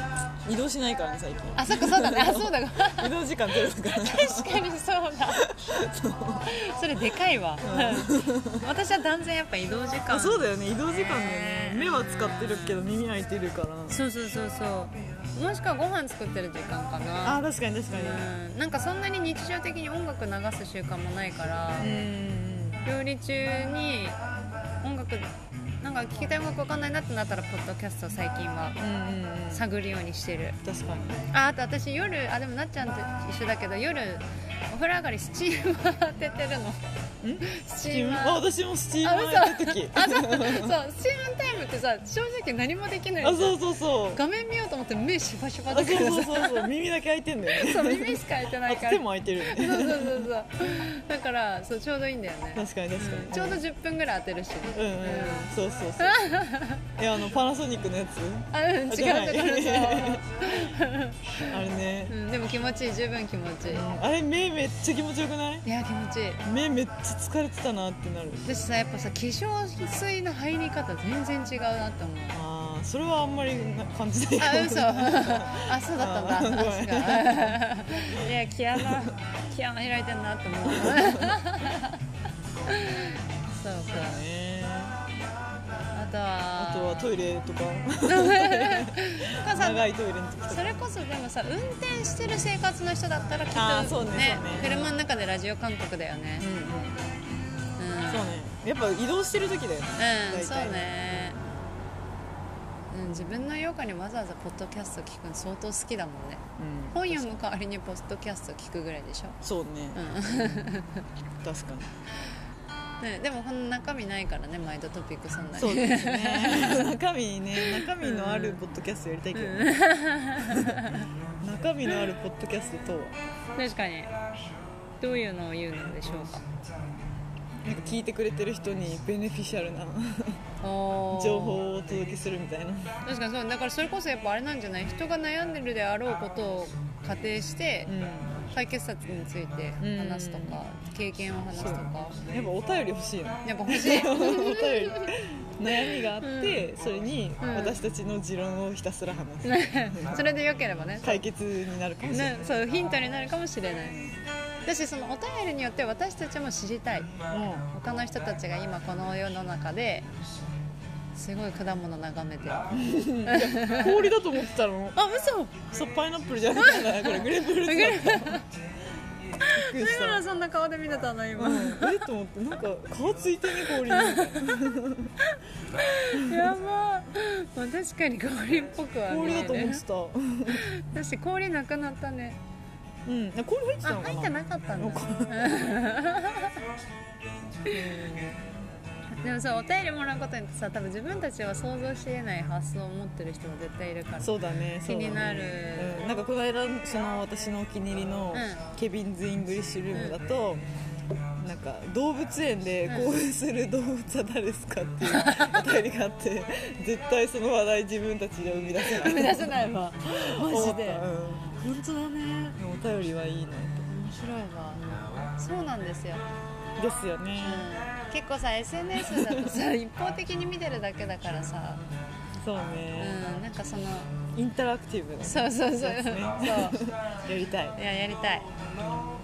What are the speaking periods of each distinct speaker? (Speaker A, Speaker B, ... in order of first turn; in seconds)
Speaker A: 0.4-4.7, 5.3-6.5, 7.6-8.6, 10.1-14.0, 17.2-18.2, 21.8-22.8, 28.8-29.6, 30.6-31.2, 37.2-40.7, 43.2-44.2, 45.7-50.3, 52.5-53.6, 54.7-56.2, 57.0-60.2, 61.5-62.1, 63.7-65.6, 66.4-68.5, 72.3-77.6, 78.8-79.1, 80.6-81.4, 83.8-84.9, 86.6-90.7, 93.5-94.9, 96.4-97.0, 98.1-101.4, 106.6-107.4, 109.4-110.0, 111.4-111.9, 115.5-119.8, 120.5-120.8, 121.4-123.2, 127.6-130.4, 131.1-132.9, 137.9-138.4, 139.8-140.6, 141.5-150.2, 151.0-152.7, 157.3-157.7, 162.8-165.0, 165.6-168.4, 169.5-170.2, 171.3-175.1, 179.1-180.6, 183.0-185.7, 187.7-188.4, 194.2-200.6, 201.4-211.6, 212.6-213.9, 214.7-215.0, 216.8-217.7, 219.0-219.6, 222.4-223.2, 224.3-227.8
Speaker B: 1.6-5.4, 6.5-12.8, 13.9-22.0, 22.8-24.2, 24.8-28.8, 29.5-30.6, 31.3-36.8, 37.4-38.4, 39.0-46.7, 47.5-56.8, 58.5-61.5, 62.1-63.9, 65.6-66.4, 68.4-72.4, 74.4-82.0, 82.7-84.2, 85.9-87.1, 88.1-89.9, 90.5-96.5, 97.8-98.4, 100.0-101.4, 102.9-109.4, 109.9-111.0, 113.0-116.9, 117.6-118.6, 119.3-121.1, 123.5-124.1, 125.0-126.4, 130.6-131.6, 133.0-137.9, 138.5-142.2, 143.4-145.2, 145.9-146.7, 147.4-147.8, 149.4-151.2, 152.1-154.1, 154.6-157.1, 157.7-160.1, 161.1-162.7, 163.2-164.1, 164.9-165.6, 166.6-168.4, 169.6-172.0, 173.6-174.6, 175.7-179.8, 180.5-182.4, 183.8-186.6, 189.2-196.0, 198.3-198.6, 202.8-203.2, 205.0-205.6, 208.8-211.0, 211.6-212.5, 213.9-214.8, 215.4-216.2, 217.4-221.8, 223.0-224.2, 225.2-226.8, 227.7-228.4